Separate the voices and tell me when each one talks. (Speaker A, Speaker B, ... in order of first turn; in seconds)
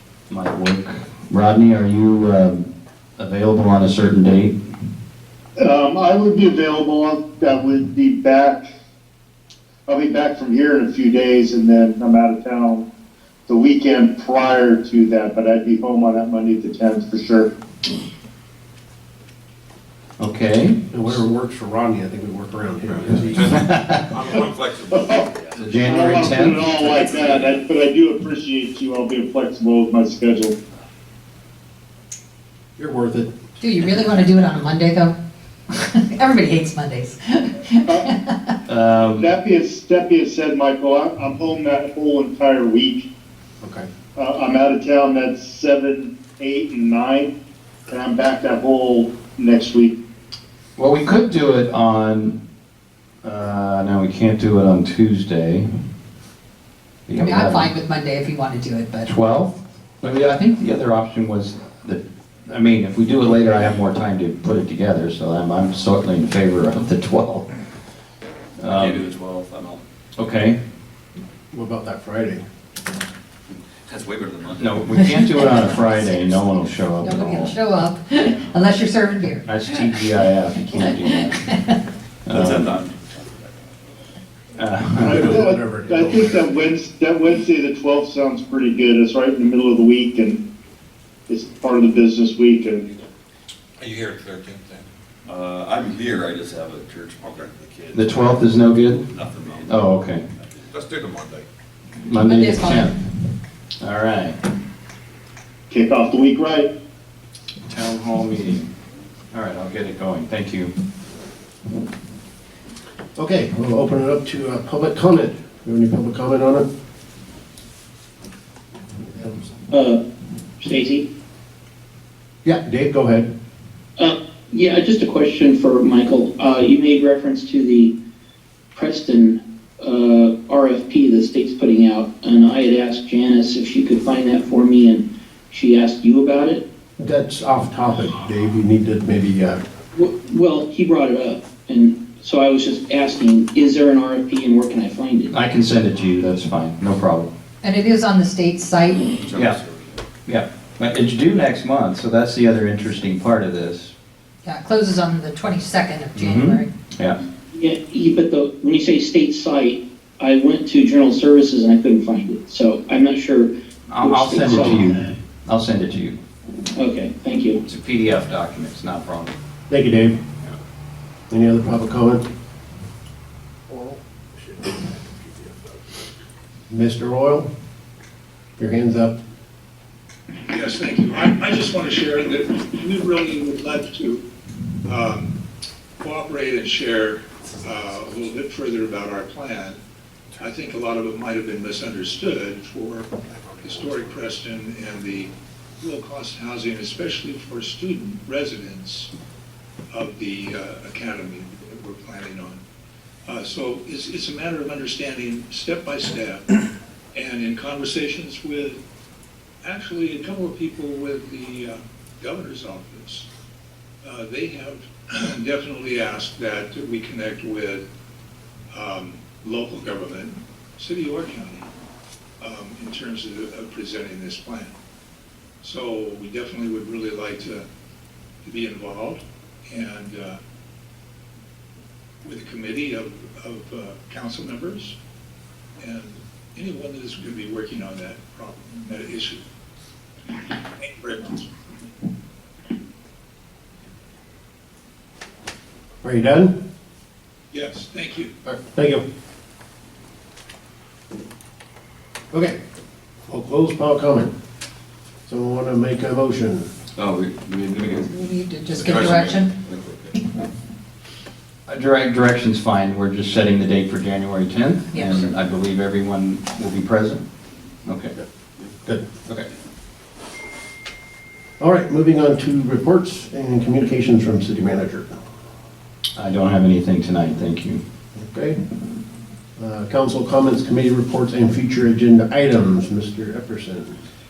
Speaker A: 0.3-4.5, 20.2-21.2, 23.4-24.1, 25.6-26.6, 38.7-39.3, 50.8-52.4, 53.2-55.7, 57.1-57.7, 59.0-67.5, 68.6-69.0, 70.2-70.6, 74.6-77.6, 79.5-81.6, 82.3-82.7, 84.6-85.4, 97.9-99.0, 99.7-100.2, 102.0-103.0, 103.8-104.4, 107.7-108.7, 109.3-110.7, 145.3-147.3, 150.3-153.9, 156.2-157.2, 163.9-166.2, 167.7-169.4, 261.7-267.2, 267.9-268.1, 276.2-277.8
Speaker B: 5.6-8.7, 9.9-12.9, 13.5-17.5, 24.9-25.3, 25.8-30.6, 39.0-43.1, 44.2-47.3, 47.9-50.0, 85.0-90.4, 91.3-92.9, 105.7-106.7
Speaker C: 20.9-23.6, 32.8-33.3, 43.6-43.9, 71.5-72.4, 85.0-86.5, 113.2-116.7, 122.4-123.3, 137.0-139.6, 169.7-170.2, 171.3-172.2, 173.7-175.8, 176.7-177.5, 178.6-179.2, 246.0-246.5, 248.5-249.0, 253.3-254.3, 255.3-256.7, 271.6-275.2, 278.2-278.6, 279.6-284.0
Speaker D: 24.1-25.1, 93.9-94.8, 100.8-101.3
Speaker E: 33.6-35.1, 35.7-38.5, 57.2-59.1, 74.9-76.3, 77.0-81.8, 102.2-102.9, 147.6-149.2, 154.4-156.7, 258.1-259.5, 264.9-265.2
Speaker F: 68.7-69.8, 73.8-74.9, 82.3-83.0, 95.3-98.5, 99.1-99.8, 149.1-150.0, 257.0-260.1
Speaker G: 119.7-120.0, 120.6-121.1, 124.0-128.0, 128.7-136.7, 139.9-145.3, 157.5-164.8, 166.7-167.6
Speaker H: 180.5-184.2, 184.9-185.4, 186.0-189.8, 190.4-199.1, 199.9-202.6, 203.3-206.5, 207.1-208.8, 209.6-213.3, 214.0-217.8, 218.7-221.7, 222.4-224.8, 225.6-227.7, 228.4-230.4, 232.2-235.0, 235.8-239.4, 240.8-241.5, 247.5-248.3